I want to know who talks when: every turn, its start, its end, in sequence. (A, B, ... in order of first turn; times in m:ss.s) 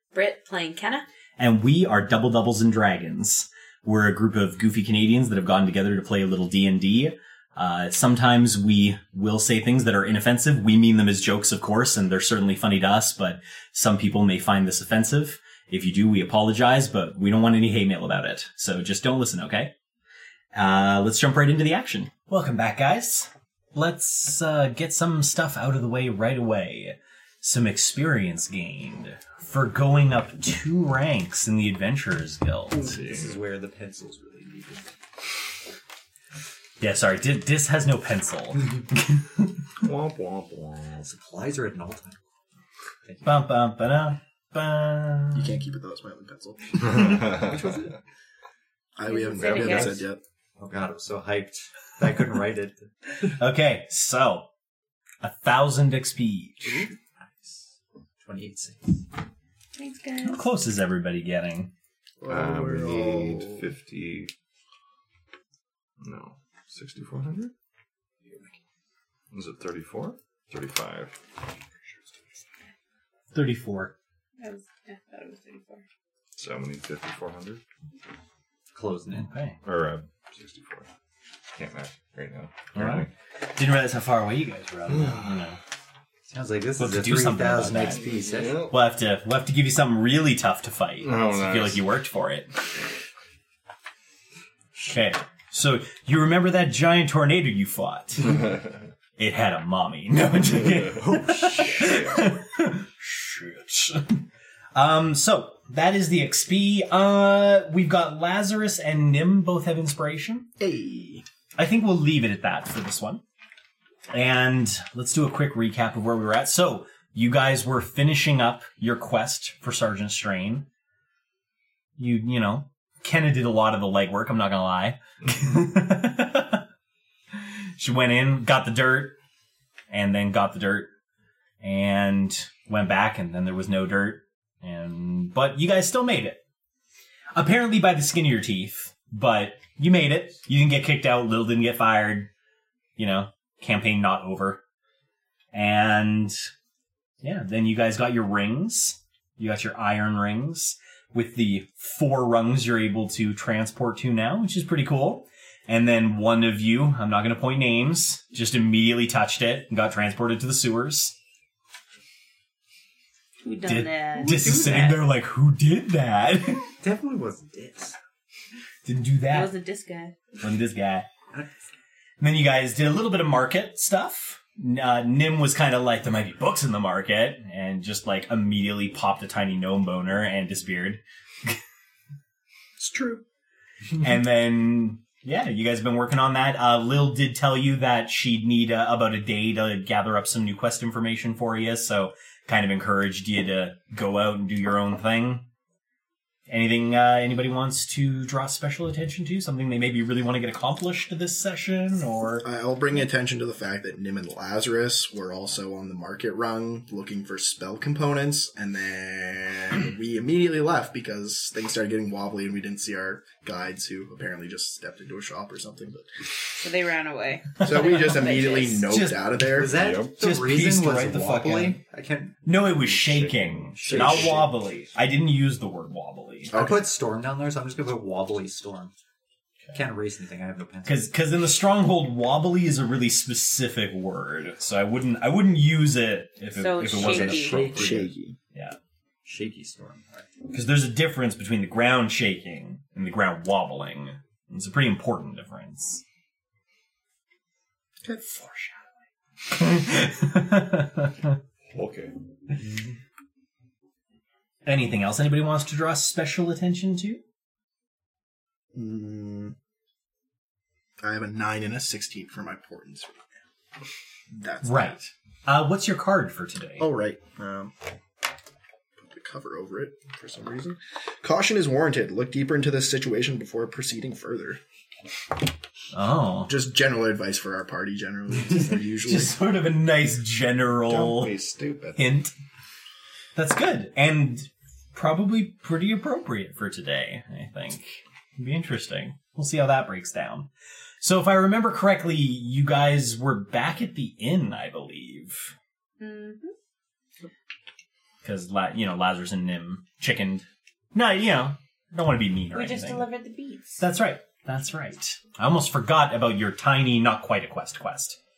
0:00.1-0:01.0 A
0:01.4-0:19.7 B
0:20.5-0:32.9 B
0:32.7-0:34.9 C
0:32.8-0:33.4 D
0:36.8-0:39.6 B
0:39.8-0:41.0 D
0:41.0-0:42.2 C
0:43.2-0:45.5 B
0:45.3-0:47.2 E
0:47.0-0:47.5 D
0:47.1-0:47.9 C
0:49.0-0:50.2 E
0:49.0-0:50.0 A
0:49.4-0:50.0 C
0:50.6-0:52.9 C
0:53.2-0:54.5 B
0:55.2-0:56.9 B
0:58.2-0:59.0 C
0:59.7-1:00.4 A
1:00.2-1:01.7 B
1:02.2-1:03.7 E
1:02.2-1:04.3 D
1:06.0-1:07.5 D
1:09.3-1:11.2 D
1:13.3-1:13.9 B
1:14.4-1:15.8 A
1:16.4-1:17.6 D
1:18.7-1:19.3 C
1:19.1-1:19.6 B
1:19.6-1:20.8 D
1:21.6-1:23.1 D
1:22.7-1:25.6 B
1:24.9-1:25.4 D
1:26.3-1:28.6 C
1:26.8-1:28.0 B
1:28.0-1:28.7 D
1:28.7-1:32.5 B
1:31.0-1:31.8 D
1:34.8-1:38.5 B
1:39.2-1:44.2 B
1:41.0-1:42.3 D
1:44.7-1:50.5 B
1:50.6-1:51.2 E
1:51.6-1:53.2 B
1:54.1-2:00.6 B
2:02.0-2:06.6 B
2:07.4-2:09.2 B
2:09.9-2:10.9 B
2:11.6-2:16.4 B
2:17.3-2:22.3 B
2:23.0-2:24.6 B
2:25.5-2:26.4 B
2:27.2-2:41.1 B
2:43.4-2:45.0 A
2:43.6-2:46.7 B
2:44.2-2:45.0 C
2:46.8-2:48.0 C
2:48.8-2:49.5 B
2:49.3-2:50.2 A
2:50.4-2:51.1 B
2:52.2-3:01.6 B
3:02.8-3:03.2 E
3:04.0-3:15.4 B
3:16.5-3:22.5 B
3:22.4-3:36.0 E
3:36.6-3:38.9 A
3:37.6-3:39.8 E
3:38.9-3:39.4 B
3:39.5-3:42.4 C
3:39.7-3:40.2 D
3:40.1-3:41.8 B
3:42.4-3:46.6 B
3:42.8-3:44.5 D
3:43.8-3:44.5 C
3:46.5-3:46.9 E
3:46.5-3:48.9 C
3:49.7-3:51.0 C
3:50.8-3:58.0 B
3:56.5-3:57.7 A
3:57.0-3:58.0 D
3:57.4-3:58.0 C
3:57.7-3:58.4 E
3:59.2-4:00.3 C
4:00.5-4:06.0 B
4:08.0-4:08.4 E
4:09.5-4:11.4 B
4:11.7-4:12.1 D
4:14.6-4:17.2 B
4:18.7-4:19.5 E
4:21.0-4:23.3 E
4:24.3-4:25.0 E
4:24.6-4:26.9 B
4:26.8-4:27.7 E
4:29.0-4:34.6 E
4:35.9-4:36.5 B
4:36.5-4:39.4 E
4:39.0-4:41.4 B
4:40.9-4:42.1 D
4:42.0-4:42.3 B
4:43.4-4:50.5 B
4:51.0-4:55.5 B
4:56.0-4:56.5 A
4:58.2-5:03.1 B
5:02.5-5:03.8 A
5:03.8-5:08.2 B